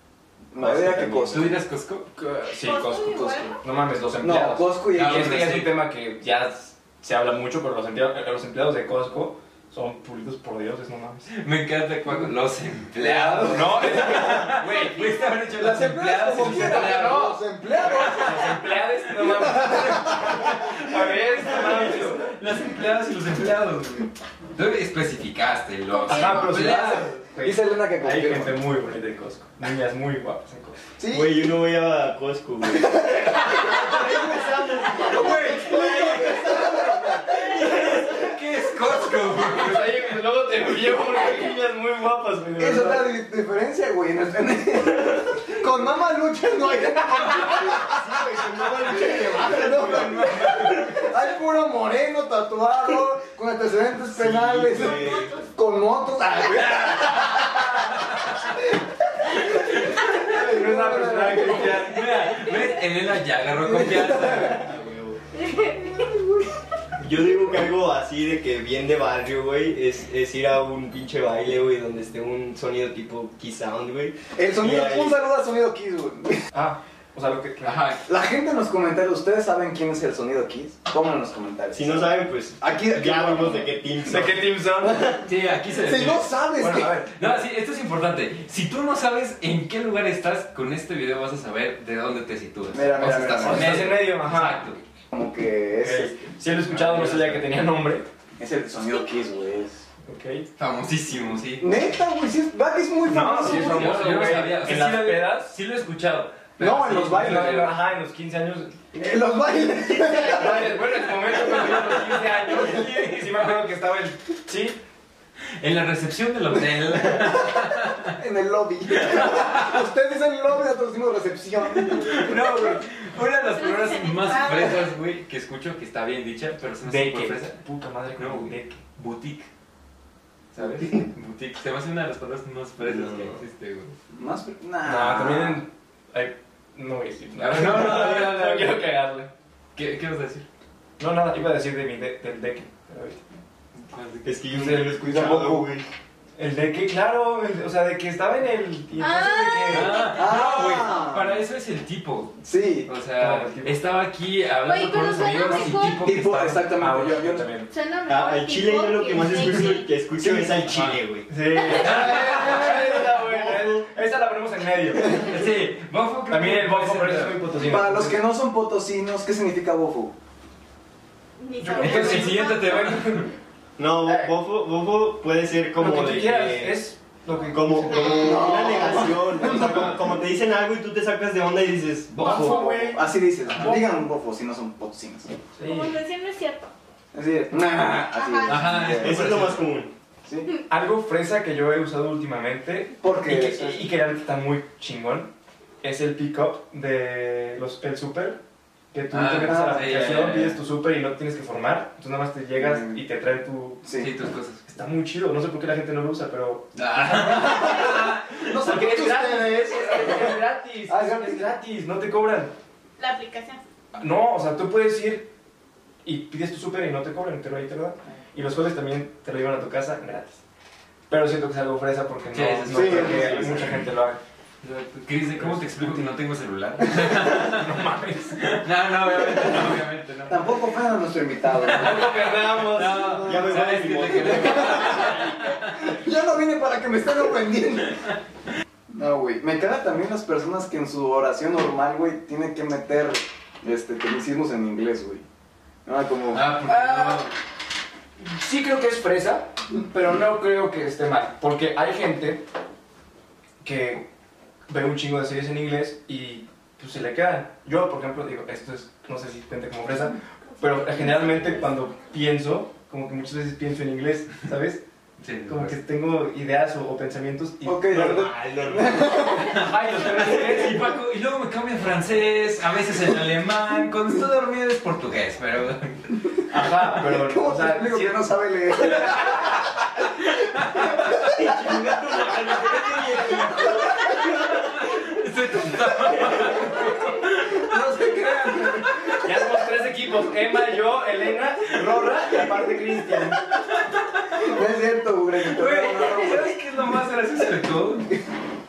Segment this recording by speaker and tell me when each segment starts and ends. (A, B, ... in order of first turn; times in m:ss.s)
0:00.5-0:01.6 A
0:00.5-0:01.5 B
0:01.3-0:02.1 C
0:02.2-0:11.3 D
0:02.5-0:03.6 E
0:03.1-0:03.5 A
0:04.2-0:05.6 A
0:04.9-0:05.8 C
0:11.3-0:27.1 C
0:13.0-0:14.4 A
0:13.5-0:14.7 D
0:14.8-0:15.2 E
0:15.5-0:18.5 A
0:16.4-0:17.4 D
0:18.0-0:22.3 D
0:19.3-0:20.3 A
0:25.9-0:26.7 E
0:26.1-0:30.8 D
0:27.4-0:28.6 A
0:31.0-0:31.4 A
0:31.1-0:36.6 B
0:32.6-0:37.8 A
0:37.3-0:40.1 C
0:39.4-0:43.1 D
0:42.6-0:58.7 A
0:47.3-0:50.4 B
0:49.8-0:51.1 C
0:54.1-0:55.3 B
0:54.7-0:55.5 E
0:56.8-0:58.4 C
0:59.3-1:01.7 A
0:59.3-1:00.4 C
1:00.2-1:02.2 D
1:01.4-1:04.7 C
1:03.6-1:04.6 A
1:04.5-1:05.2 B
1:05.3-1:06.5 E
1:07.0-1:15.2 B
1:14.4-1:16.5 A
1:16.5-1:17.8 D
1:17.6-1:18.1 C
1:18.0-1:23.7 A
1:21.7-1:25.2 B
1:24.0-1:25.0 D
1:24.8-1:25.2 A
1:25.2-1:34.8 C
1:25.8-1:27.1 A
1:32.7-1:34.0 A
1:33.0-1:34.7 D
1:35.1-1:36.2 A
1:35.8-1:38.0 D
1:36.5-1:37.5 C
1:38.4-1:39.8 A
1:40.0-1:40.5 D
1:40.6-1:41.7 C
1:41.6-1:44.0 A
1:43.1-1:45.6 D
1:43.3-1:47.8 C
1:46.6-1:47.7 A
1:47.1-1:54.8 D
1:48.9-1:50.9 A
1:51.1-1:53.7 C
1:55.6-1:58.2 C
1:57.1-1:57.5 A
1:58.1-2:02.5 A
1:58.9-1:59.8 C
2:01.8-2:07.6 C
2:03.3-2:05.0 E
2:06.8-2:08.8 D
2:08.2-2:09.5 C
2:10.5-2:13.9 C
2:12.8-2:13.4 B
2:14.1-2:15.6 A
2:14.8-2:19.3 D
2:17.4-2:18.8 C
2:19.8-2:20.5 C
2:21.0-2:23.2 D
2:23.9-2:24.3 C
2:24.2-2:25.9 B
2:24.5-2:25.7 D
2:24.7-2:25.5 A
2:26.4-2:30.0 D
2:29.0-2:30.3 E
2:29.7-2:36.8 C
2:30.2-2:31.4 A
2:32.4-2:32.9 A
2:33.2-2:34.0 D
2:34.6-2:36.1 E
2:35.4-2:37.5 A
2:36.8-2:37.7 D
2:37.7-2:40.0 E
2:38.0-2:41.3 B
2:40.2-2:40.6 A
2:40.6-2:41.0 C
2:41.3-2:45.3 D
2:41.7-2:43.0 C
2:41.7-2:43.5 A
2:41.7-2:42.1 E
2:45.0-2:45.3 A
2:45.0-2:47.5 C
2:46.3-2:48.2 D
2:47.6-2:50.1 A
2:51.4-2:53.1 E
2:51.6-2:53.2 D
2:51.8-2:53.3 C
2:53.8-2:56.9 B
2:54.0-2:54.3 D
2:55.8-2:58.3 D
2:57.4-3:02.7 B
2:58.0-3:00.1 A
3:02.2-3:04.0 D
3:02.2-3:05.3 A
3:02.3-3:02.7 E
3:05.6-3:06.0 D
3:05.6-3:06.7 E
3:07.1-3:09.4 A
3:08.1-3:08.7 E
3:08.4-3:09.7 C
3:08.9-3:09.9 B
3:10.2-3:10.5 A
3:10.7-3:15.3 D
3:13.0-3:13.9 A
3:15.8-3:18.4 D
3:18.9-3:23.8 D
3:19.1-3:20.6 C
3:19.3-3:20.3 A
3:22.5-3:23.0 A
3:23.8-3:24.1 A
3:23.9-3:24.6 C
3:24.6-3:26.7 D
3:26.7-3:28.6 C
3:27.0-3:31.5 A
3:28.6-3:32.5 D
3:33.0-3:33.6 E
3:33.9-3:35.3 D
3:36.0-3:40.4 D
3:41.1-3:44.2 D
3:42.3-3:43.9 C
3:42.7-3:43.6 A
3:44.6-3:47.8 C
3:45.3-3:46.2 D
3:46.9-3:48.6 D
3:48.4-3:50.6 C
3:50.3-3:53.0 A
3:51.5-3:55.9 C
3:51.7-3:55.2 D
3:53.2-3:54.9 B
3:54.1-3:58.0 A
3:58.9-4:05.2 A
4:05.8-4:06.5 A
4:06.3-4:07.3 C
4:06.6-4:07.3 D
4:08.2-4:12.4 D
4:13.6-4:14.1 D
4:14.7-4:24.8 D
4:20.5-4:22.0 E
4:25.2-4:25.8 C
4:25.5-4:28.3 D
4:27.6-4:29.7 A
4:27.9-4:29.2 B
4:29.4-4:30.9 D
4:29.4-4:36.2 C
4:36.5-4:38.2 D
4:37.0-4:39.6 A
4:40.4-4:41.0 C
4:40.9-4:41.3 A
4:41.2-4:44.7 B
4:42.4-4:49.3 C
4:47.5-4:49.3 A
4:49.2-4:53.4 D
4:51.7-4:53.1 A
4:53.4-4:54.6 C
4:54.3-4:56.6 A
4:55.4-4:58.1 C